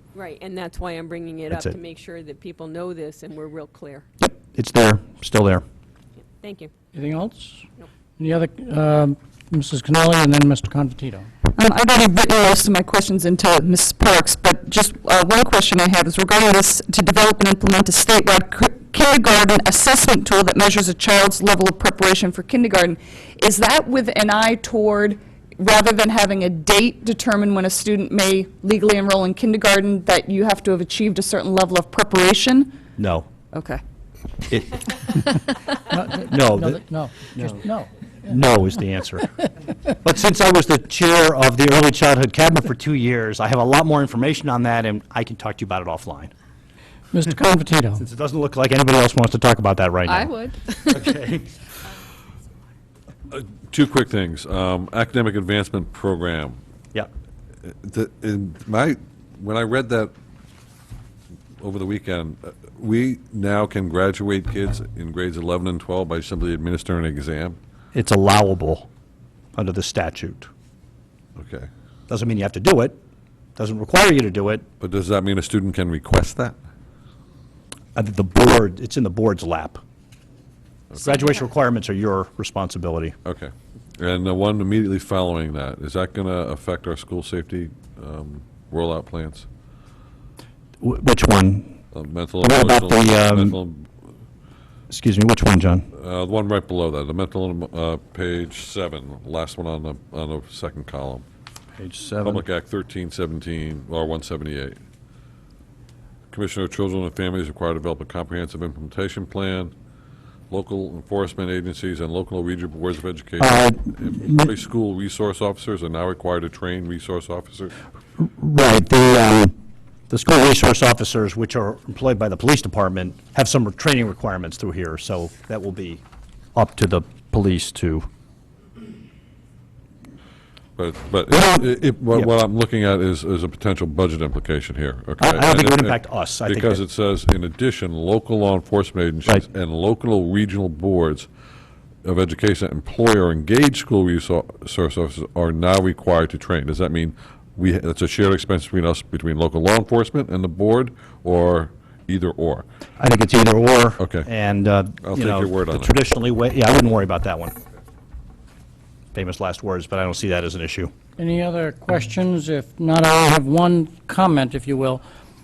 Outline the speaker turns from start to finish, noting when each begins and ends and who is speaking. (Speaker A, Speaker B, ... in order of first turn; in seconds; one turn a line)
Speaker A: 0.1-4.0
Speaker B: 1.5-1.8
Speaker B: 4.2-5.6
Speaker A: 6.4-6.7
Speaker C: 6.9-7.6
Speaker C: 8.2-11.3
Speaker D: 11.4-32.8
Speaker B: 33.0-33.3
Speaker D: 33.5-33.8
Speaker C: 35.9-37.9
Speaker B: 36.3-36.8
Speaker B: 37.3-37.6
Speaker B: 38.3-39.4
Speaker B: 40.0-46.3
Speaker C: 47.1-48.0
Speaker B: 48.0-50.4
Speaker B: 50.9-51.5
Speaker E: 53.3-56.6
Speaker E: 57.6-60.1
Speaker E: 61.6-67.6
Speaker B: 67.9-68.9
Speaker B: 69.5-70.5
Speaker E: 71.4-71.7
Speaker B: 72.1-73.0
Speaker B: 73.6-74.7
Speaker E: 74.8-76.6
Speaker B: 78.0-79.8
Speaker E: 80.9-81.2
Speaker B: 81.0-83.2
Speaker E: 83.2-89.5
Speaker B: 90.8-91.8
Speaker E: 91.9-93.9
Speaker B: 92.4-93.6
Speaker B: 94.9-95.9
Speaker E: 96.0-101.3
Speaker B: 101.8-102.4
Speaker E: 102.2-104.8
Speaker E: 106.3-109.7
Speaker E: 110.5-117.7
Speaker B: 113.4-114.5
Speaker B: 118.2-119.5
Speaker B: 120.1-126.0
Speaker B: 126.5-128.1
Speaker E: 130.8-141.3
Speaker B: 131.3-132.3
Speaker B: 135.2-136.8
Speaker E: 142.0-152.7
Speaker B: 153.0-157.6
Speaker E: 154.0-154.3
Speaker E: 155.0-155.9
Speaker B: 159.1-160.9
Speaker C: 161.2-165.1